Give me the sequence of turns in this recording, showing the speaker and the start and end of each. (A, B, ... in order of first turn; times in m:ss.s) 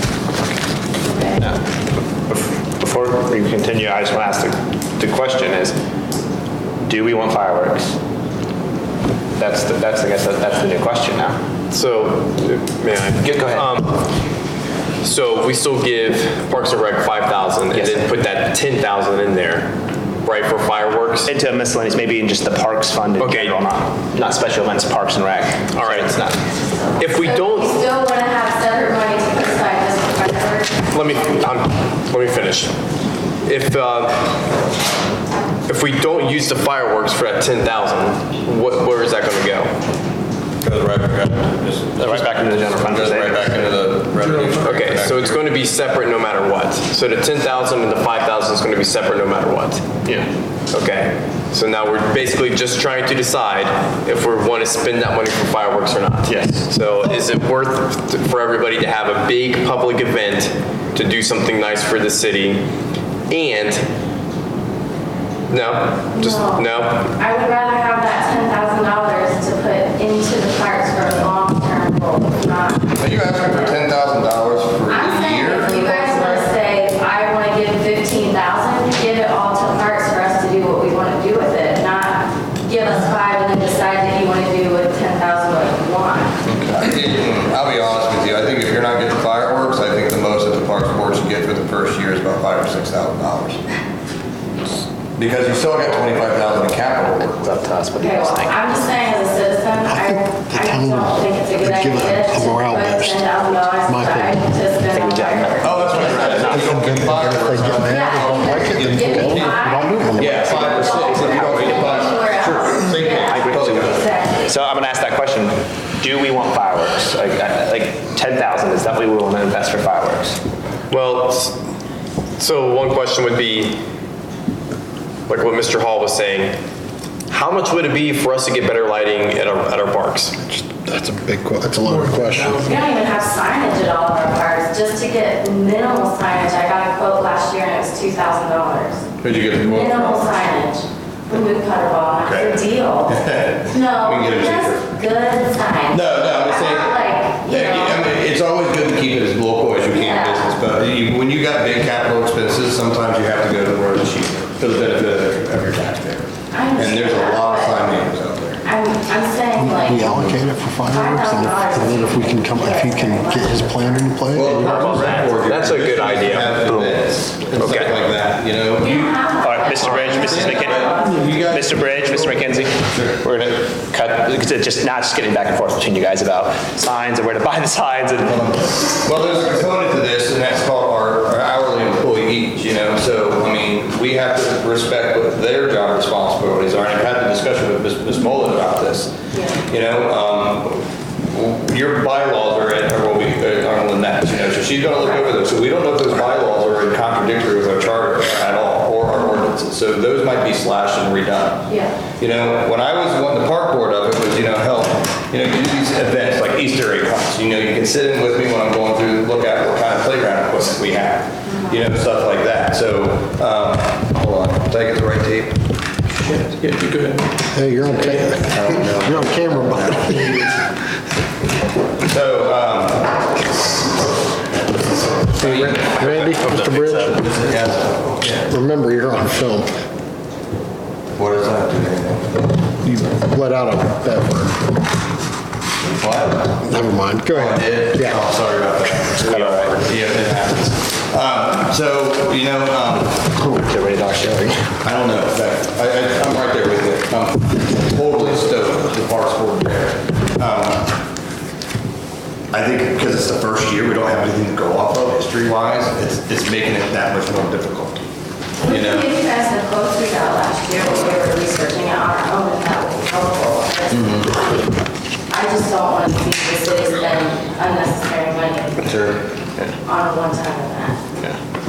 0:01.0-0:01.4 A
0:02.3-0:05.8 B
0:06.8-0:08.0 B
0:09.4-0:11.4 B
0:11.7-0:13.9 C
0:13.2-0:13.7 B
0:15.0-0:19.7 C
0:17.7-0:18.1 B
0:20.2-0:21.3 C
0:21.3-0:26.4 B
0:23.2-0:23.6 C
0:25.7-0:26.3 C
0:26.7-0:30.9 A
0:27.0-0:27.8 C
0:30.9-0:32.7 C
0:33.4-0:34.2 C
0:35.7-0:39.7 C
0:40.6-0:45.4 D
0:42.0-0:43.5 B
0:44.6-0:49.9 C
0:50.0-0:50.3 B
0:50.7-1:02.7 C
0:56.3-0:56.7 B
1:03.3-1:03.8 C
1:05.5-1:07.1 C
1:06.1-1:12.9 A
1:13.0-1:16.4 D
1:14.9-1:26.4 A
1:26.4-1:33.6 D
1:35.2-1:37.6 D
1:37.2-1:38.6 B
1:38.0-1:45.9 A
1:39.8-1:44.5 E
1:44.9-1:47.0 B
1:45.6-1:54.2 D
1:46.5-1:50.4 E
1:47.8-1:54.4 A
1:50.2-1:52.6 B
1:53.2-2:00.4 B
2:00.9-2:01.6 C
2:02.4-2:03.8 C
2:05.3-2:06.6 C
2:07.3-2:10.4 C
2:10.5-2:12.8 E
2:12.6-2:19.0 A
2:19.2-2:20.4 D
2:19.7-2:28.1 A
2:22.2-2:24.9 D
2:25.9-2:38.6 D
2:29.9-2:30.6 A
2:36.5-2:38.0 A
2:38.6-2:40.2 A
2:39.6-2:44.9 E
2:40.9-2:43.8 A
2:44.4-2:53.2 D
2:44.7-2:45.3 B
2:45.3-2:46.6 C
2:46.6-2:47.0 B
2:47.6-2:48.0 B
2:48.7-2:51.3 A
2:49.4-2:58.4 B
2:49.8-2:50.2 C
2:58.2-3:35.6 D
3:09.3-3:09.6 A
3:21.7-3:22.0 A
3:31.4-3:31.9 A
3:36.2-3:37.2 D
3:37.5-3:40.4 E
3:38.2-3:40.5 D
3:42.0-3:43.3 D
3:45.4-3:47.6 E
3:45.4-3:45.6 D
3:46.0-3:46.3 C
3:46.5-3:46.9 B
3:47.3-3:48.5 D
3:48.3-3:49.7 E
3:51.2-3:52.5 D
3:52.8-3:54.6 E
3:55.9-3:56.8 D
3:56.6-3:58.2 E
3:57.3-4:03.3 D
3:59.2-3:59.8 B
4:03.4-4:04.8 B
4:04.8-4:10.9 D
4:12.5-4:18.0 D
4:18.6-4:24.3 A
4:18.7-4:19.1 D
4:23.9-4:24.3 D
4:25.3-4:28.9 A
4:28.8-4:29.2 D
4:29.8-4:31.0 A